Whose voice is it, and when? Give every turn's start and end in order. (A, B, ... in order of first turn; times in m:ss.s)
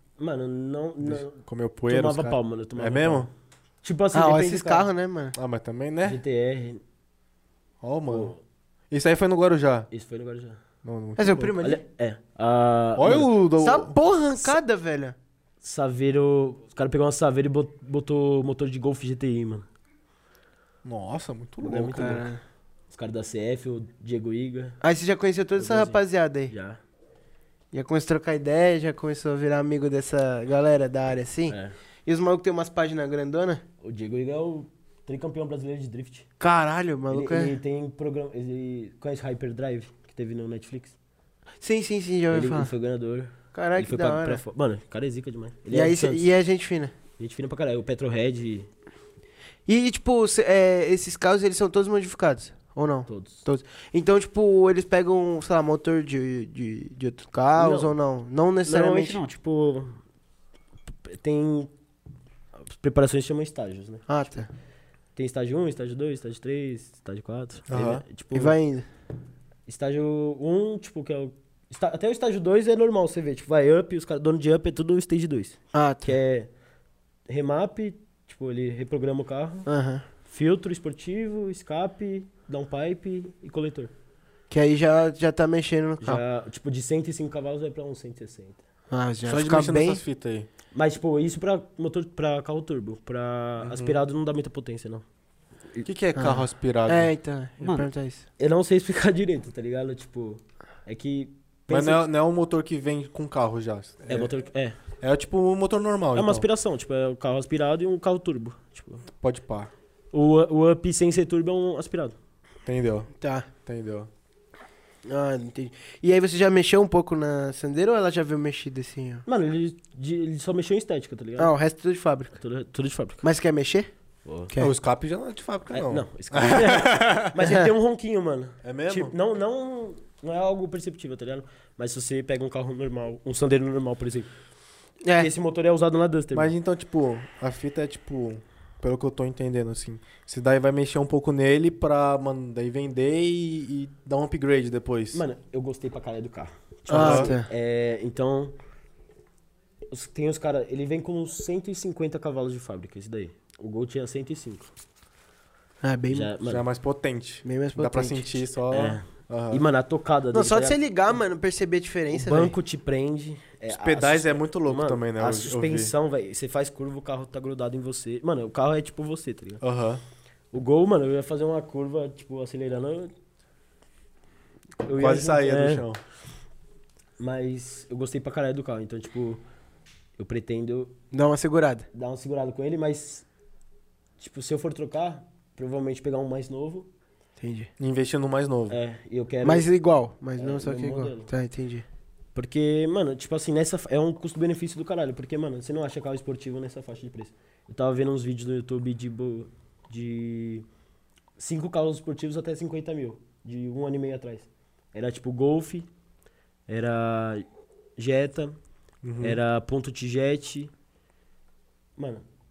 0:00.2-0:03.3 A
0:01.0-0:03.3 B
0:03.8-0:04.9 A
0:04.1-0:05.4 C
0:05.4-0:06.2 B
0:06.0-0:06.8 A
0:07.8-0:08.4 B
0:08.1-0:08.4 A
0:08.9-0:09.9 B
0:09.9-0:10.6 A
0:10.8-0:11.6 B
0:11.2-0:11.8 C
0:11.6-0:13.3 A
0:13.0-0:13.9 B
0:13.6-0:15.2 C
0:15.6-0:19.7 A
0:20.8-0:22.3 B
0:21.6-0:22.3 A
0:22.0-0:22.4 C
0:22.9-0:24.8 A
0:24.8-0:26.5 C
0:25.6-0:26.8 A
0:27.7-0:33.6 C
0:31.5-0:31.8 A
0:33.8-0:36.3 A
0:36.4-0:37.6 C
0:37.1-0:41.0 A
0:41.6-0:42.7 C
0:42.3-0:46.3 A
0:43.5-0:44.4 C
0:45.7-0:46.9 C
0:47.2-0:48.7 A
0:49.7-0:59.2 C
0:53.1-0:53.4 A
0:57.6-0:57.9 A
0:58.6-1:00.0 A
1:01.0-1:01.7 A
1:02.6-1:04.5 A
1:04.1-1:04.5 C
1:05.2-1:08.6 A
1:07.7-1:08.0 B
1:08.3-1:08.9 C
1:09.7-1:16.5 A
1:15.7-1:16.1 C
1:17.3-1:19.7 A
1:19.7-1:20.0 C
1:20.3-1:23.9 A
1:24.5-1:26.2 C
1:26.0-1:28.6 A
1:28.9-1:30.0 C
1:29.2-1:30.5 B
1:30.7-1:35.0 A
1:33.6-1:34.0 B
1:35.9-1:37.1 B
1:36.2-1:38.3 C
1:38.4-1:42.0 A
1:41.7-1:44.4 B
1:44.1-1:44.8 A
1:45.0-1:46.5 B
1:46.1-1:49.0 A
1:49.2-1:49.7 B
1:50.1-1:52.2 A
1:52.7-1:53.1 B
1:53.2-1:53.5 C
1:53.6-1:54.1 B
1:55.1-1:59.2 C
1:59.3-2:01.5 A
2:01.4-2:02.4 C
2:02.4-2:03.2 A
2:03.2-2:03.9 C
2:04.2-2:04.5 A
2:04.6-2:07.3 B
2:05.7-2:14.3 A
2:08.6-2:09.1 B
2:15.0-2:15.3 C
2:15.2-2:16.5 A
2:16.3-2:25.2 B
2:25.1-2:28.6 A
2:26.9-2:27.3 B
2:26.9-2:27.5 C
2:29.9-2:34.7 A
2:35.8-2:36.3 C
2:36.1-2:36.6 A
2:36.4-2:39.6 B
2:37.4-2:38.4 C
2:38.7-2:40.8 A
2:40.3-2:42.5 C
2:42.1-2:49.6 A
2:43.7-2:45.9 B
2:49.6-2:50.0 B
2:50.5-2:53.1 A
2:54.8-2:55.8 A
2:55.0-2:56.0 B
2:57.2-2:59.4 A
3:00.2-3:01.0 A
3:01.1-3:01.9 C
3:01.9-3:03.3 A
3:04.2-3:06.9 A
3:07.4-3:07.7 C
3:07.8-3:08.8 B
3:08.7-3:09.7 A
3:09.4-3:11.8 C
3:10.4-3:11.3 A
3:12.4-3:20.7 A
3:21.4-3:25.9 A
3:26.7-3:27.5 A
3:28.0-3:28.6 A
3:29.0-3:29.4 B
3:29.2-3:30.7 A
3:32.0-3:32.2 A